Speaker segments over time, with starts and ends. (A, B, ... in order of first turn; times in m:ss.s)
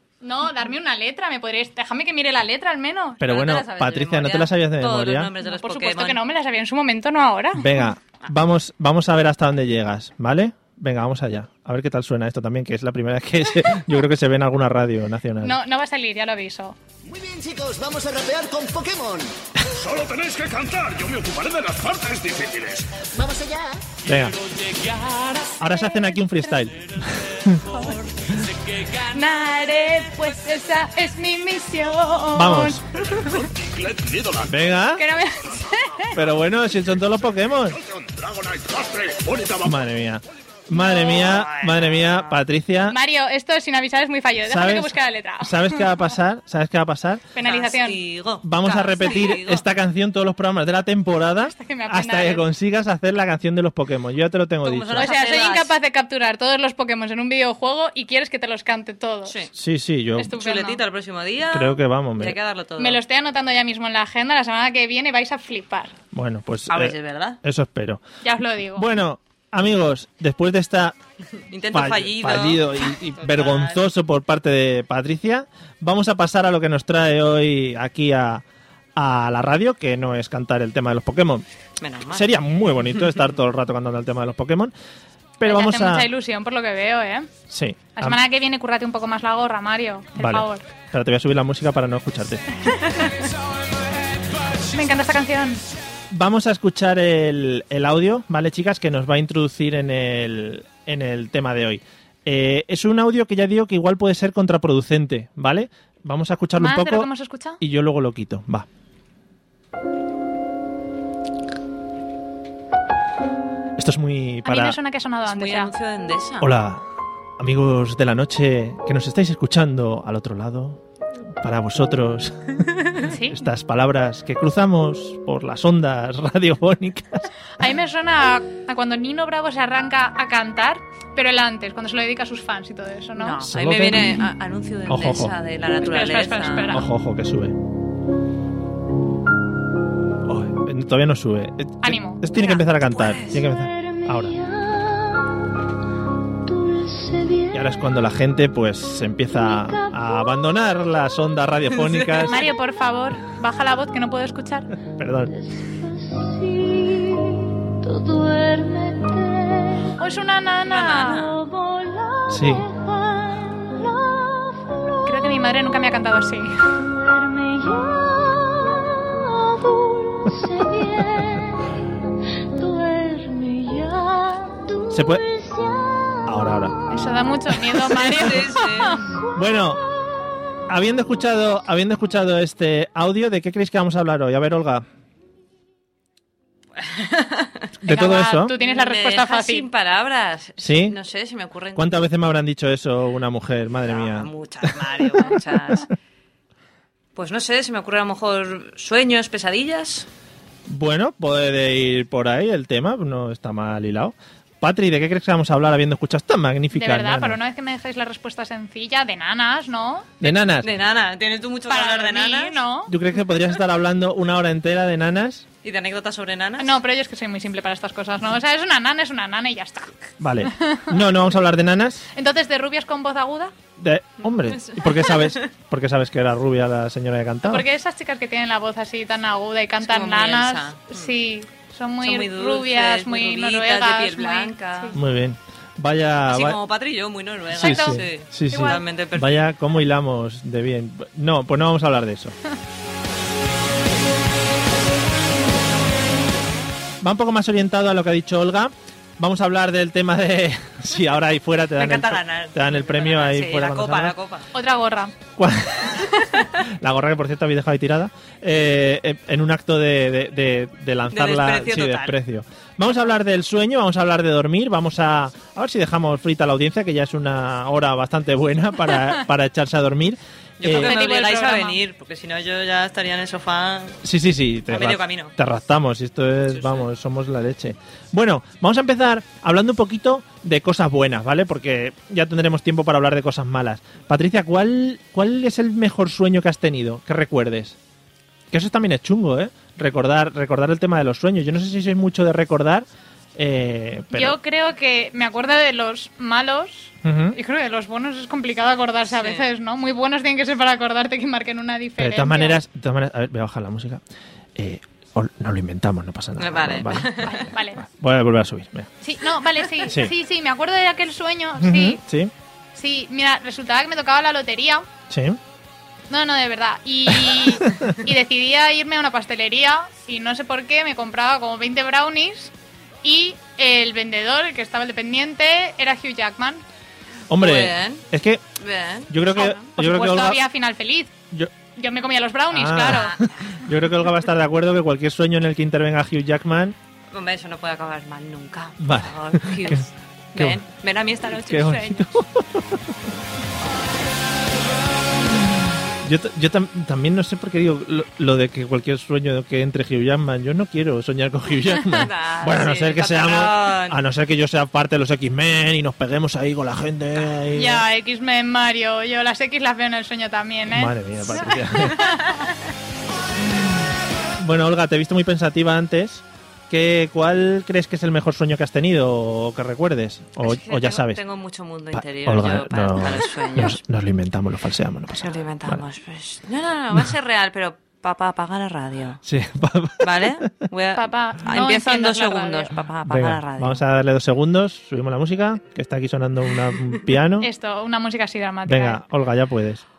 0:00.2-0:03.2 A
0:03.2-0:05.3 B
0:03.2-0:06.2 C
0:05.4-0:07.7 A
0:07.5-0:15.6 B
0:15.4-0:16.8 A
0:17.1-0:19.3 D
0:19.7-0:22.9 E
0:23.2-0:23.8 D
0:24.1-0:24.4 B
0:24.5-0:25.4 E
0:25.6-0:27.6 B
0:29.1-0:32.8 A
0:32.4-0:32.8 B
0:33.1-0:34.7 E
0:34.5-0:35.0 B
0:35.0-0:36.1 A
0:36.1-0:37.8 B
0:37.7-0:39.8 E
0:39.6-0:43.0 B
0:40.7-0:41.2 A
0:40.9-0:42.4 C
0:42.9-0:45.9 A
0:44.4-0:47.2 B
0:47.4-0:48.0 A
0:47.4-0:49.6 C
0:48.4-0:55.1 B
0:48.7-0:49.3 A
0:51.4-0:52.4 A
0:54.6-0:55.7 C
0:55.0-0:59.4 A
0:59.5-1:00.4 B
1:00.2-1:00.8 A
1:00.4-1:03.0 C
1:01.5-1:02.4 B
1:02.8-1:05.9 A
1:06.1-1:08.0 B
1:06.7-1:07.4 C
1:08.2-1:08.9 A
1:08.8-1:11.0 B
1:11.5-1:13.8 C
1:11.7-1:18.4 B
1:19.0-1:21.4 B
1:21.8-1:22.3 C
1:22.1-1:24.7 B
1:25.4-1:26.1 B
1:25.4-1:27.3 A
1:27.5-1:28.2 B
1:28.0-1:30.7 A
1:30.2-1:32.6 B
1:32.7-1:33.1 A
1:34.7-1:35.6 A
1:36.1-1:47.1 B
1:46.6-1:47.6 A
1:47.6-1:48.7 B
1:53.8-1:54.8 B
1:54.4-1:55.7 A
1:55.3-1:56.5 C
1:56.4-1:56.8 B
1:57.4-2:00.8 B
2:01.4-2:07.3 B
2:03.0-2:03.4 A
2:07.6-2:13.4 A
2:13.2-2:16.8 C
2:13.5-2:14.3 B
2:14.9-2:15.3 B
2:15.8-2:16.8 A
2:16.7-2:17.6 B
2:20.3-2:24.4 B
2:21.8-2:22.2 A
2:22.4-2:23.5 C
2:27.5-2:32.5 B
2:31.8-2:32.3 C
2:32.3-2:34.7 A
2:35.0-2:35.4 B
2:39.9-2:41.3 A
2:40.7-2:41.4 C
2:42.3-2:42.7 B
2:45.0-2:46.7 A
2:54.9-2:55.3 B
2:56.2-2:56.8 B
2:56.9-2:59.0 A
2:57.6-2:58.3 B
2:58.0-2:59.1 C
2:59.3-2:59.8 B
3:00.7-3:04.8 B
3:06.8-3:07.7 C
3:07.8-3:08.5 B
3:07.9-3:09.7 A
3:08.6-3:11.9 C
3:10.6-3:11.0 B
3:11.8-3:15.8 B
3:13.9-3:15.9 C
3:17.2-3:20.1 C
3:20.7-3:27.4 B
3:26.7-3:30.2 A
3:30.2-3:30.7 B
3:30.6-3:32.6 C
3:31.7-3:32.9 A
3:32.9-3:35.5 B
3:35.6-3:36.8 C
3:36.6-3:39.9 A
3:40.2-3:42.1 B
3:40.6-3:40.9 A
3:42.2-3:43.5 A
3:43.8-3:47.7 B
3:44.2-3:45.5 C
3:47.4-3:55.0 A
3:49.8-3:51.2 C
3:52.0-3:55.0 C
3:54.9-3:56.6 B
3:56.3-3:59.3 C
3:57.5-4:02.4 B
3:57.6-3:58.8 A
4:07.0-4:14.2 B
4:11.8-4:14.5 C
4:14.5-4:15.1 A
4:15.4-4:16.1 B
4:16.6-4:30.9 B
4:21.1-4:22.2 C
4:30.6-4:34.0 C
4:30.7-4:31.8 A
4:34.0-4:47.8 B
4:34.7-4:35.3 C
4:36.5-4:36.8 C
4:48.5-4:54.4 B
4:54.1-5:02.6 A
4:57.0-4:57.4 B
4:59.1-4:59.5 C
5:02.0-5:04.0 B
5:04.6-5:07.1 B
5:06.4-5:07.5 C
5:07.2-5:07.8 A
5:07.8-5:08.9 B
5:09.0-5:12.0 A
5:09.9-5:10.1 B
5:11.6-5:12.3 B
5:12.8-5:14.9 A
5:15.1-5:15.4 B
5:16.1-5:22.5 A
5:17.1-5:17.9 B
5:23.0-5:26.6 A
5:27.3-5:28.4 B
5:27.4-5:28.0 C
5:28.6-5:29.6 C
5:29.1-5:30.4 B
5:29.4-5:31.1 A
5:31.8-5:33.1 A
5:32.5-5:36.8 B
5:32.9-5:33.6 C
5:37.1-5:42.0 C
5:38.8-5:39.8 B
5:40.4-5:40.6 B
5:41.3-5:42.9 B
5:45.4-5:57.8 B
5:52.0-5:54.0 C
5:57.5-6:02.2 A
6:00.7-6:02.1 B
6:02.2-6:02.5 C
6:04.4-6:11.2 B
6:10.4-6:13.8 C
6:11.9-6:15.8 B
6:15.2-6:19.2 C
6:19.2-6:20.4 B
6:20.0-6:23.8 C
6:21.0-6:22.7 A
6:23.1-6:27.5 B
6:27.4-6:29.0 A
6:28.7-6:29.8 B